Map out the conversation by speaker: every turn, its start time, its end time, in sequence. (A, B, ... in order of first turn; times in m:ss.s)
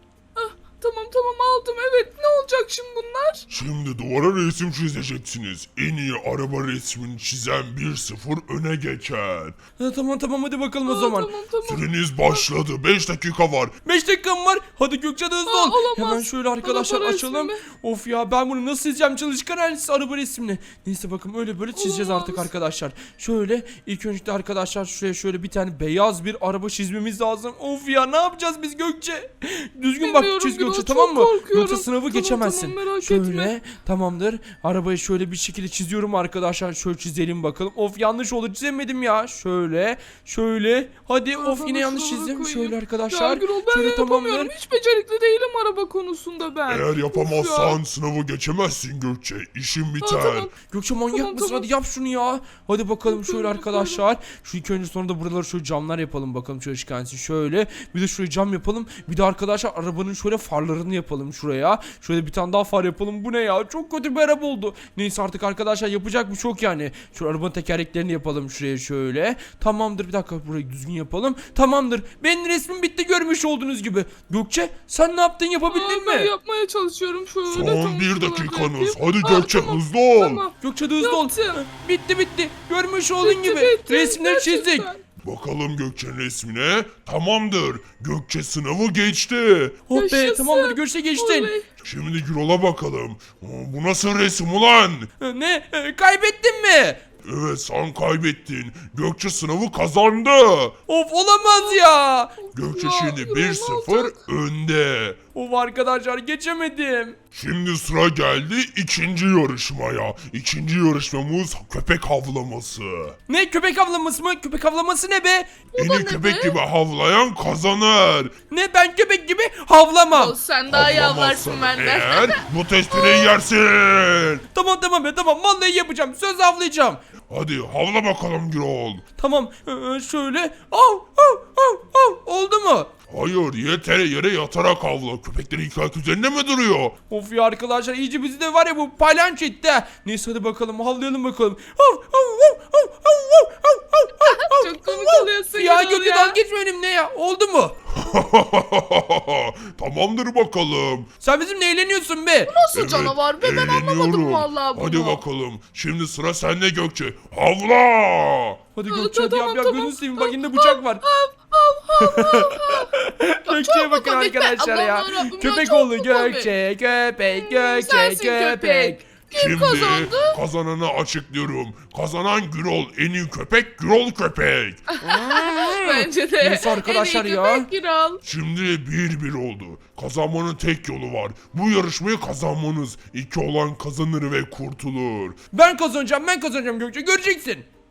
0:00.4-0:03.4 A
0:03.5-0:09.6 B
0:09.8-0:11.3 C
0:10.8-0:12.5 A
0:11.6-0:13.7 B
0:13.8-0:44.5 C
0:15.4-0:17.6 A
0:21.7-0:22.5 A
0:30.0-0:33.5 A
0:41.4-0:47.8 A
0:46.7-0:50.5 B
0:50.0-0:50.5 A
0:50.7-1:16.3 C
0:51.1-0:51.7 A
0:53.1-0:54.0 A
1:15.7-1:21.6 A
1:17.5-1:20.4 B
1:20.6-1:24.9 C
1:23.2-1:25.0 A
1:25.2-1:29.8 B
1:29.9-1:31.5 C
1:29.9-1:31.6 A
1:31.8-1:35.1 B
1:35.2-1:37.0 C
1:37.2-1:40.7 B
1:40.9-1:42.4 C
1:41.4-1:44.2 A
1:42.5-1:45.2 B
1:45.3-1:47.2 C
1:47.3-1:53.2 B
1:53.3-1:55.5 C
1:55.7-1:56.6 A
1:55.8-1:58.3 B
1:58.5-2:00.4 C
2:00.1-2:03.3 A
2:00.7-2:04.4 B
2:04.5-2:07.0 C
2:07.3-2:09.0 B
2:09.2-2:12.9 C
2:13.1-2:16.9 B
2:17.1-2:27.8 C
2:24.2-2:26.4 A
2:28.0-2:31.1 B
2:31.2-2:32.6 C
2:32.4-2:35.2 A
2:32.7-2:38.6 B
2:38.7-2:41.0 C
2:38.9-2:42.9 A
2:42.0-2:49.0 C
2:43.4-2:46.5 A
2:47.2-2:50.4 A
2:49.3-2:54.8 B
2:54.9-2:58.2 A
2:55.0-2:57.7 C
2:58.2-3:05.4 B
3:05.5-3:07.7 C